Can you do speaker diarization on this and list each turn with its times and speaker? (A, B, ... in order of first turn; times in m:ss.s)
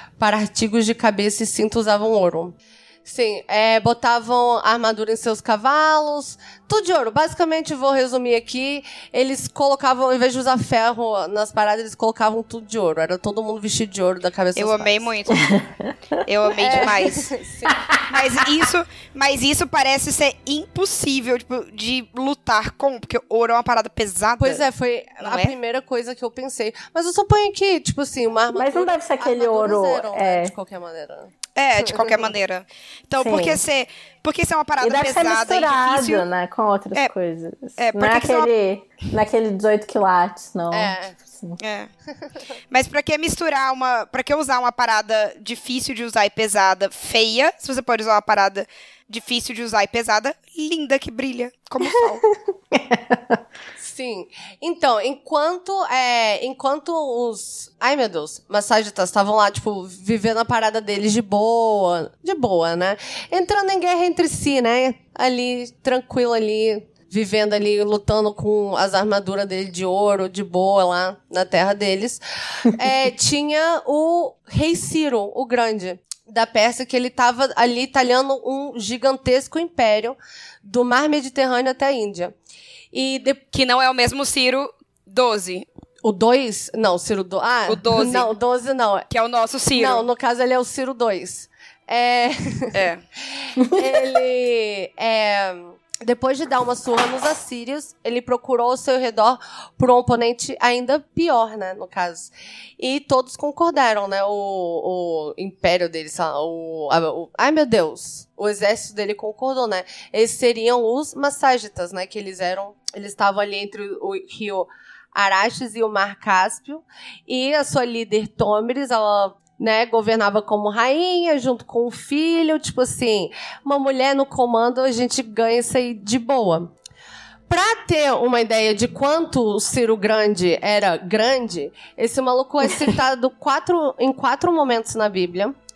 0:00.2-0:15.1 A
0:14.6-0:15.6 B
0:15.5-0:15.9 C
0:16.2-0:17.3 B
0:16.6-0:17.8 A
0:17.7-0:18.0 C
0:18.1-0:24.7 B
0:24.4-0:32.3 A
0:25.2-0:25.6 B
0:28.6-0:30.5 C
0:31.6-0:36.3 B
0:33.2-0:33.6 C
0:34.8-0:41.6 C
0:37.8-0:38.5 B
0:40.7-0:41.2 A
0:41.6-0:41.9 B
0:42.7-0:52.2 B
0:52.7-0:53.4 C
0:53.8-1:22.3 A
1:22.9-1:23.4 A
1:23.5-1:25.7 B
1:26.0-1:29.1 A
1:27.7-1:28.3 B
1:29.1-1:30.1 B
1:29.8-1:32.8 A
1:32.7-1:33.0 B
1:33.4-2:06.7 A
2:07.5-2:15.6 A